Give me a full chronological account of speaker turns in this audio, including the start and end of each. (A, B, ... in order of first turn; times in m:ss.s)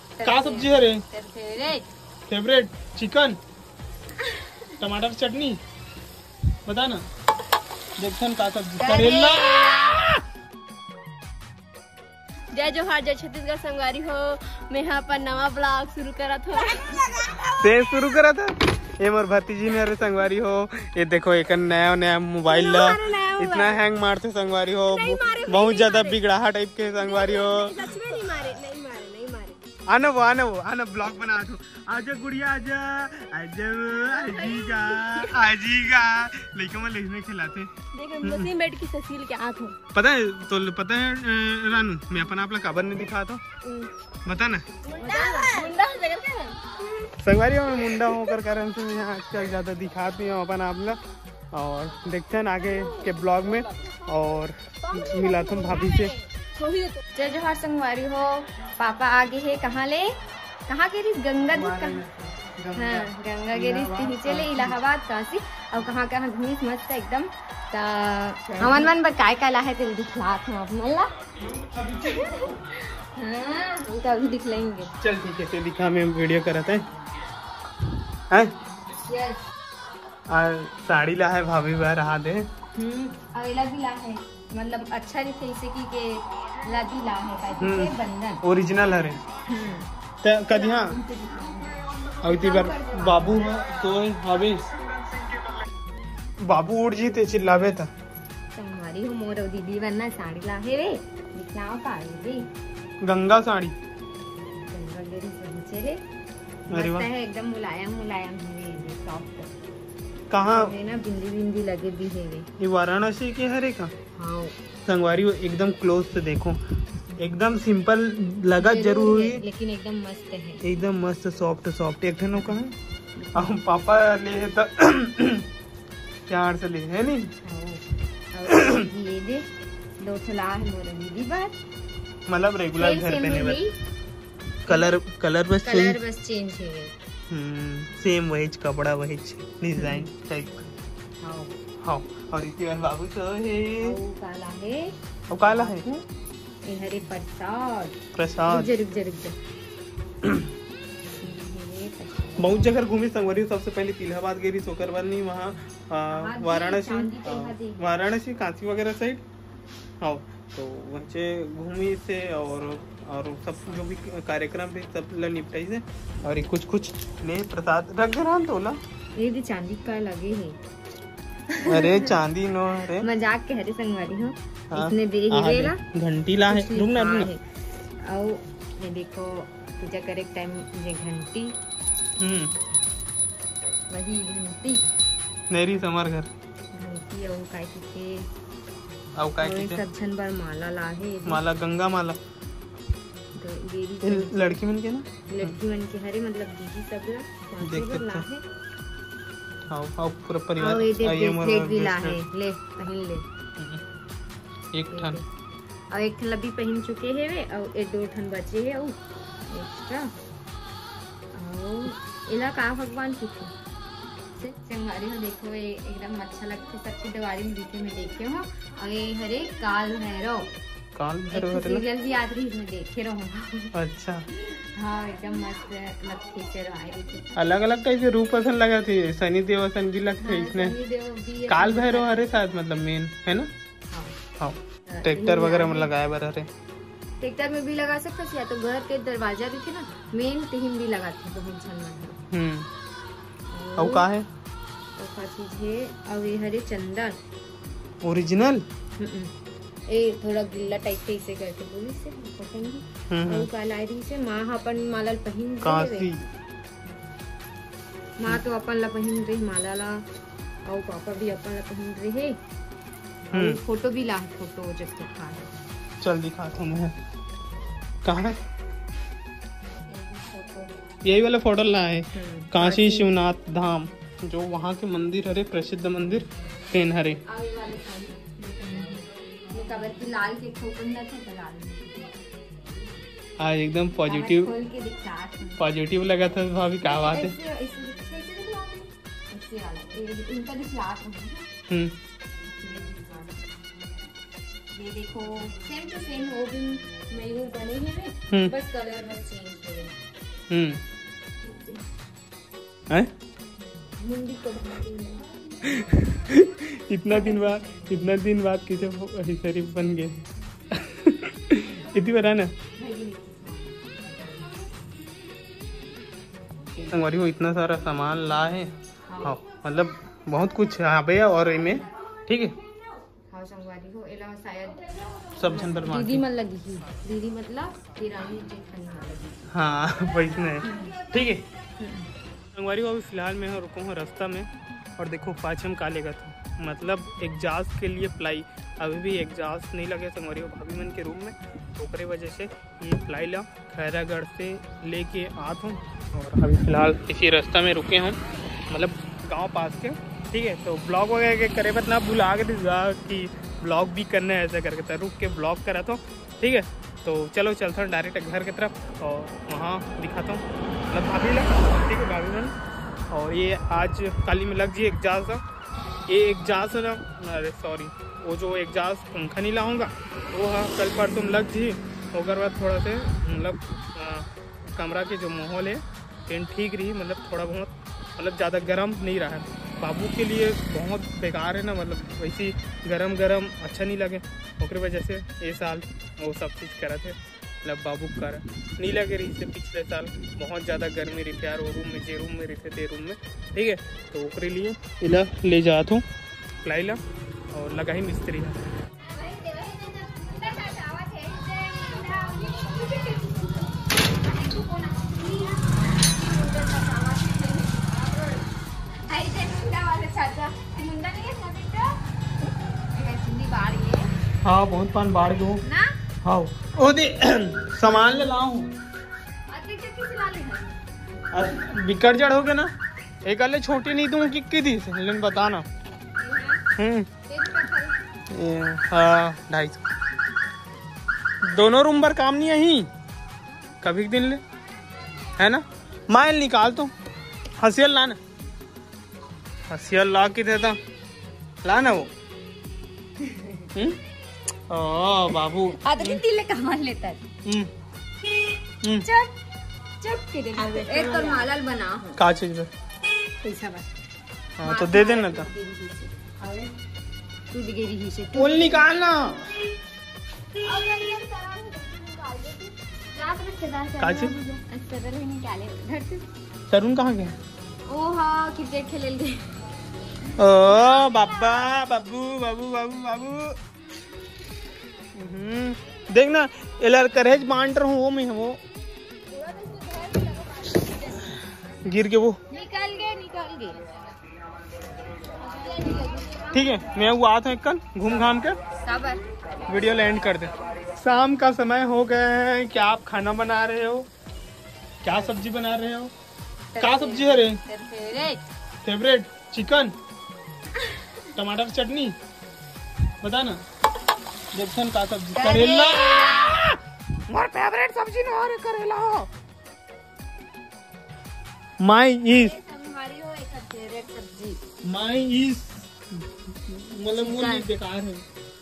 0:00.2-0:01.9 A
0:00.2-0:01.0 B
0:02.3-0:03.4 B
0:04.2-0:04.7 A
0:04.8-0:05.6 B
0:06.7-0:07.0 B
0:08.0-0:10.0 B
0:08.8-0:10.2 A
0:12.5-0:17.5 C
0:17.6-0:28.0 B
0:22.5-0:23.8 C
0:24.9-0:26.2 C
0:27.0-0:29.6 C
0:29.9-0:38.5 B
0:34.3-0:35.2 C
0:37.9-0:39.8 C
0:39.9-0:43.4 B
0:43.6-0:43.9 C
0:44.3-0:44.7 B
0:44.8-0:46.6 C
0:45.0-0:45.7 A
0:47.2-0:51.0 B
0:51.5-0:56.1 B
0:54.8-0:57.0 C
0:57.2-1:00.1 A
1:00.7-1:02.1 A
1:01.5-1:04.8 B
1:02.8-1:11.1 A
1:08.5-1:08.9 B
1:11.8-1:14.9 A
1:15.0-1:16.9 B
1:19.1-1:19.4 A
1:20.3-1:22.5 B
1:22.8-1:28.4 A
1:27.6-1:29.2 B
1:29.5-1:29.9 A
1:30.2-1:31.0 B
1:30.5-1:33.5 A
1:32.2-1:34.6 B
1:36.4-1:37.9 B
1:38.5-1:42.5 A
1:43.0-1:43.8 B
1:44.7-1:46.0 A
1:46.7-1:49.5 A
1:46.7-1:47.1 B
1:50.3-1:50.7 B
1:50.4-1:52.5 A
1:52.6-1:53.9 B
1:54.2-1:54.6 A
1:54.8-1:56.6 B
1:57.2-1:59.4 B
1:58.6-2:00.6 A
2:00.6-2:02.8 B
2:03.2-2:03.6 A
2:03.3-2:05.5 B
2:06.3-2:07.3 B
2:07.4-2:09.5 A
2:08.5-2:08.8 B
2:10.0-2:11.6 A
2:12.3-2:13.6 B
2:12.8-2:13.7 A
2:14.7-2:16.0 B
2:14.7-2:15.0 A
2:15.6-2:16.9 A
2:17.3-2:20.6 B
2:19.8-2:20.1 A
2:21.2-2:21.5 A
2:21.8-2:24.0 B
2:23.8-2:26.0 A
2:25.3-2:25.8 B
2:26.6-2:29.4 A
2:28.1-2:28.7 B
2:30.2-2:30.5 B
2:31.2-2:32.8 A
2:32.4-2:39.2 B
2:36.1-2:37.9 A
2:40.0-2:48.8 B
2:49.2-2:50.6 A
2:51.5-2:52.2 A
2:51.6-2:53.1 B
2:52.8-2:55.8 A
2:54.7-2:57.3 B
2:56.5-2:57.4 A
2:58.0-3:01.5 A
3:02.2-3:02.5 B
3:03.9-3:04.8 A
3:05.5-3:06.3 B
3:06.7-3:08.3 A
3:09.2-3:09.8 B
3:09.4-3:11.4 A
3:11.2-3:12.2 B
3:13.4-3:14.6 A
3:14.0-3:15.6 B
3:15.3-3:18.4 A
3:17.6-3:18.3 B
3:19.7-3:22.2 B
3:20.6-3:23.2 A
3:23.6-3:23.8 B
3:24.7-3:25.2 B
3:24.9-3:25.2 A
3:25.9-3:30.1 A
3:31.3-3:33.5 A
3:34.4-3:40.5 A
3:41.0-3:41.8 B
3:41.3-3:43.7 A
3:43.7-3:44.3 B
3:44.4-3:47.4 A
3:47.4-3:50.7 B
3:50.2-3:52.3 A
3:51.5-3:53.5 B
3:53.9-3:54.2 A
3:54.4-3:56.5 B
3:54.9-3:56.0 A
3:57.2-4:02.2 A
4:02.3-4:02.7 B
4:03.5-4:04.1 A
4:03.8-4:04.3 B
4:05.0-4:07.2 A
4:08.0-4:08.6 B
4:09.0-4:09.3 A
4:09.9-4:16.1 A
4:13.1-4:13.5 B
4:15.6-4:16.3 B
4:18.2-4:20.0 A
4:20.6-4:22.4 A
4:23.3-4:25.6 A
4:23.3-4:23.6 B
4:26.0-4:27.0 B
4:28.0-4:28.4 B
4:29.8-4:30.7 A
4:31.0-4:37.2 B
4:32.1-4:33.2 A
4:37.2-4:42.2 A
4:43.4-4:44.5 B
4:44.1-4:45.6 A
4:45.6-4:47.4 B
4:46.8-4:51.5 A
4:51.7-4:52.0 B
4:52.6-4:53.5 A
4:54.8-4:59.9 A
5:00.5-5:00.8 B
5:01.4-5:01.8 A
5:03.8-5:05.3 A
5:05.6-5:10.2 B
5:07.1-5:08.2 A
5:10.7-5:12.5 B
5:12.8-5:14.3 A
5:16.9-5:18.7 B
5:19.1-5:19.4 A
5:19.2-5:22.6 B
5:23.3-5:29.5 A
5:25.4-5:26.2 B
5:29.5-5:31.5 B
5:30.6-5:31.0 A
5:31.8-5:32.1 A
5:32.5-5:48.2 B
5:48.7-6:02.6 B
6:03.1-6:05.4 B
6:06.1-6:36.0 B
6:36.6-6:37.0 B
6:37.5-6:38.6 B
6:39.0-6:48.5 A
6:49.1-6:52.0 A
6:52.9-6:54.1 A
6:54.4-6:55.6 B
6:55.6-6:55.9 A
6:56.2-6:58.7 B
6:59.5-7:00.8 A
7:01.3-7:02.7 B
7:03.2-7:05.6 B
7:06.2-7:06.7 A
7:06.8-7:07.1 B
7:07.3-7:08.0 A
7:08.3-7:09.8 B
7:11.4-7:12.9 B
7:13.8-7:14.4 B
7:15.4-7:16.9 B
7:17.6-7:18.2 B
7:19.7-7:20.8 B
7:21.6-7:22.1 B
7:23.2-7:23.7 A
7:23.7-7:24.0 B
7:24.7-7:26.2 B
7:25.7-7:27.2 A
7:27.4-7:27.7 B
7:29.0-7:29.3 A
7:30.0-7:32.2 A
7:32.2-7:32.7 B
7:33.4-7:33.9 A
7:34.6-7:35.5 B
7:34.6-7:36.7 A
7:37.5-7:38.9 A
7:38.3-7:39.5 B
7:40.6-7:46.3 A
7:44.0-7:44.3 B
7:46.7-7:47.4 B
7:47.9-7:49.4 A
7:50.4-7:53.6 B
7:50.5-7:51.7 A
7:55.2-7:58.6 B
7:59.3-8:01.6 A
8:01.7-8:02.4 B
8:02.5-8:04.0 A
8:05.4-8:06.8 A
8:06.5-8:08.6 B
8:08.8-8:09.2 A
8:09.7-8:14.1 B
8:15.0-8:16.1 B
8:16.7-8:18.4 A
8:16.8-8:17.6 B
8:18.8-8:19.9 B
8:20.8-8:21.1 A
8:21.3-8:22.2 B
8:23.2-8:23.6 B
8:24.5-8:29.3 B
8:25.4-8:26.6 A
8:31.8-8:32.6 B
8:32.3-8:34.6 A
8:34.8-8:38.2 B
8:37.1-8:37.7 A